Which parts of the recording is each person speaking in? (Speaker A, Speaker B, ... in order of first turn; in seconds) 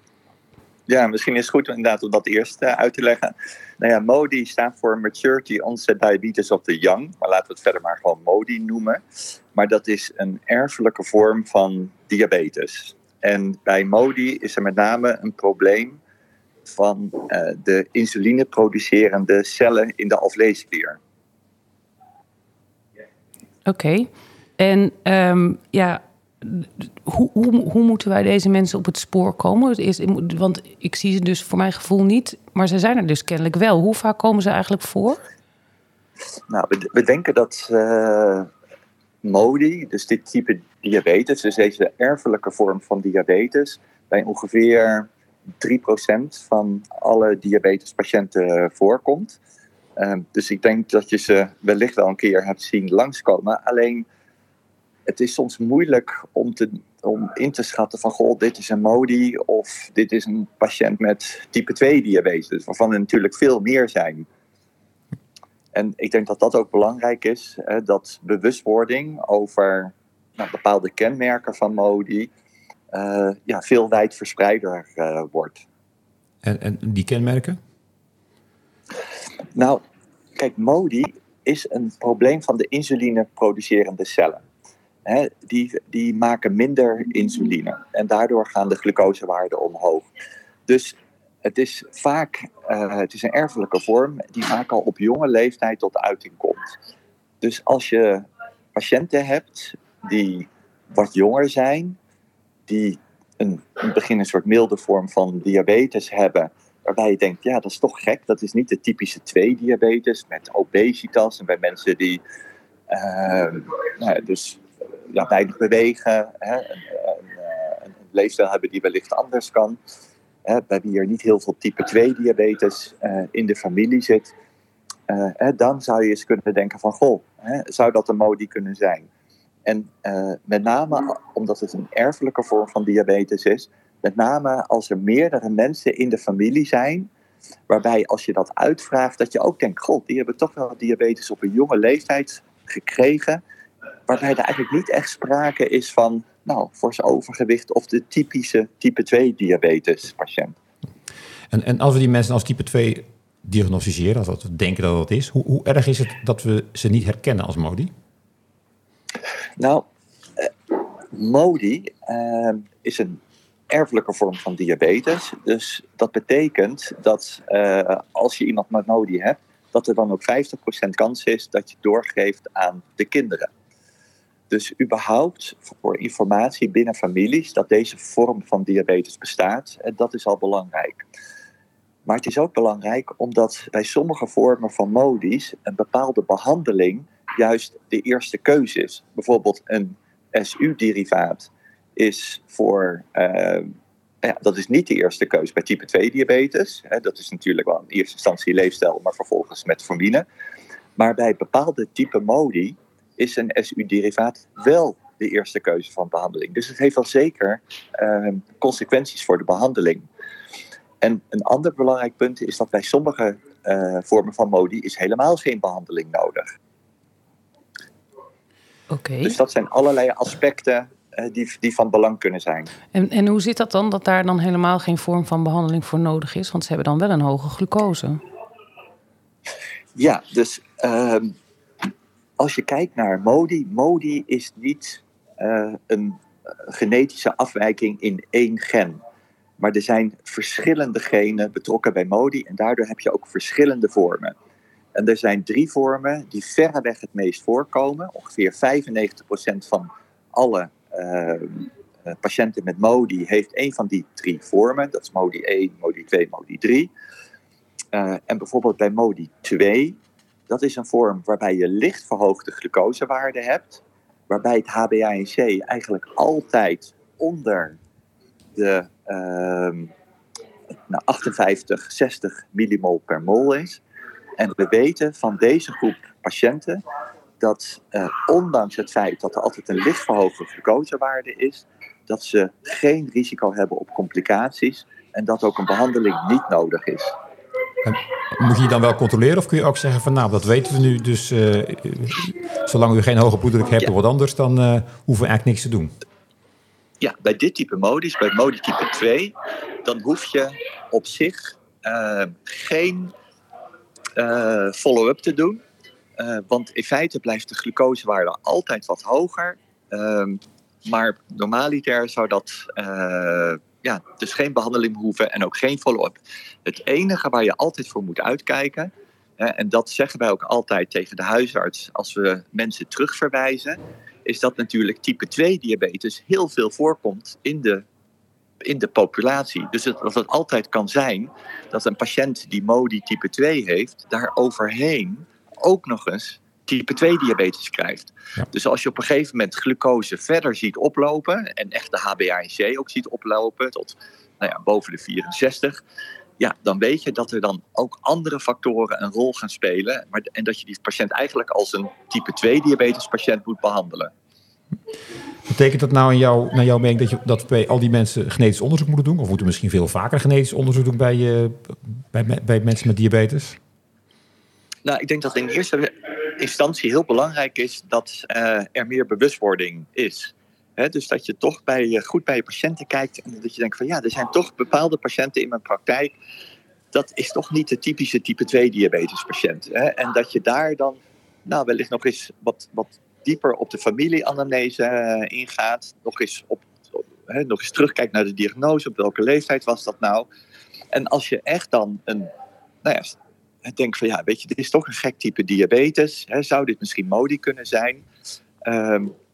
Speaker A: 0.9-9.0, 9.5-16.0, 16.6-21.0, 36.5-38.5, 39.2-45.1, 45.6-49.4, 50.0-54.0, 55.1-64.2, 65.7-72.3, 72.9-75.6, 79.5-79.8, 80.4-84.4, 85.0-90.1, 90.7-96.7, 97.4-102.0, 102.7-112.2, 112.9-119.8, 120.5-124.3, 125.1-129.1, 129.7-137.1, 137.7-143.4, 144.1-150.6, 159.6-159.9, 160.4-173.5, 174.5-181.0, 182.1-200.2, 201.0-210.1, 211.0-216.5, 219.2-222.7, 229.9-231.4, 232.4-239.0, 239.6-244.3, 244.9-256.9, 257.9-260.0, 260.5-267.8, 268.6-269.9, 270.9-273.8, 274.4-276.8, 277.4-287.1, 297.0-303.1, 304.1-305.6, 306.2-327.9, 328.6-345.8, 346.4-354.1, 364.9-376.1, 376.9-390.3, 390.9-392.3, 392.8-398.0, 398.6-399.1
Speaker B: 23.6-35.2, 218.9-219.4, 222.9-228.2
Speaker C: 76.4-77.6, 151.5-157.9, 287.8-295.9, 355.5-363.6